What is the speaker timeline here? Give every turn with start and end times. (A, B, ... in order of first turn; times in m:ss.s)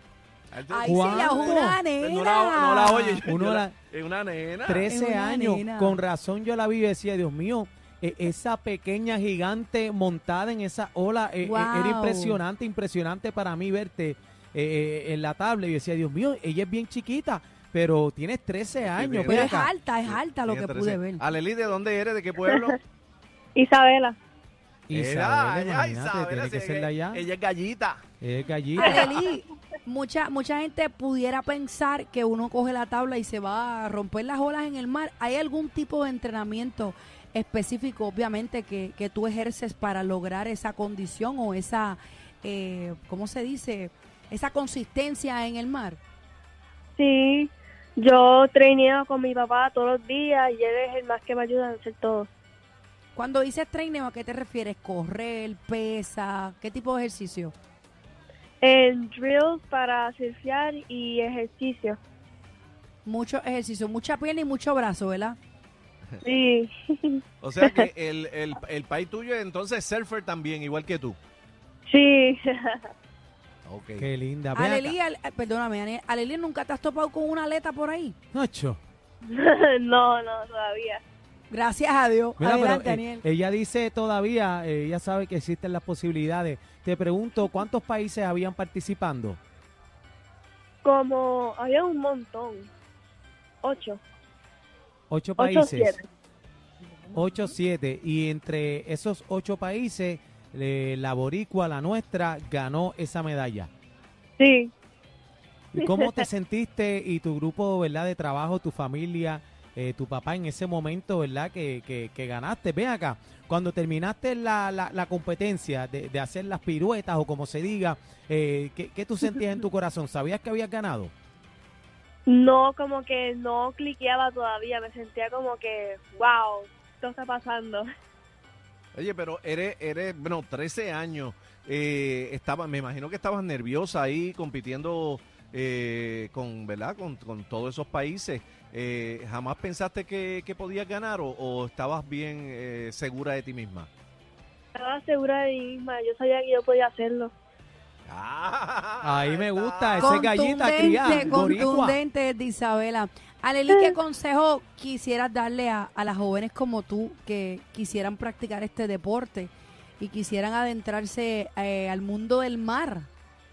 0:00.5-0:04.9 A
0:00.7-0:03.2 B
0:00.8-0:01.8 C
0:03.2-0:03.8 C
0:04.6-0:19.7 C
0:04.8-0:06.0 B
0:11.4-0:12.4 B
0:18.9-0:22.8 A
0:19.3-0:21.2 B
0:23.5-0:24.2 D
0:24.9-0:27.2 C
0:24.9-0:28.0 A
0:28.2-0:29.1 C
0:28.8-0:46.0 B
0:47.0-0:52.3 D
0:53.2-0:57.5 B
0:58.6-1:02.0 D
1:03.0-1:05.4 B
1:06.2-1:07.8 D
1:07.4-1:11.2 A
1:11.9-1:12.9 D
1:13.7-1:14.0 A
1:14.0-1:15.0 C
1:14.5-1:18.1 B
1:18.3-1:18.8 C
1:19.3-1:21.0 D
1:21.5-1:23.2 B
1:22.4-1:29.4 C
1:30.8-1:32.7 D
1:33.6-1:34.0 D
1:35.1-1:35.9 C
1:35.4-1:36.0 D
1:37.1-1:43.7 C
1:44.4-1:44.7 D
1:45.7-2:01.1 C
1:45.8-1:46.2 D
2:02.3-2:07.8 D
2:08.9-2:23.9 A
2:24.7-2:27.3 D
2:28.1-2:30.3 A
2:29.0-2:32.0 C
2:30.0-2:43.1 B
2:30.9-2:31.4 A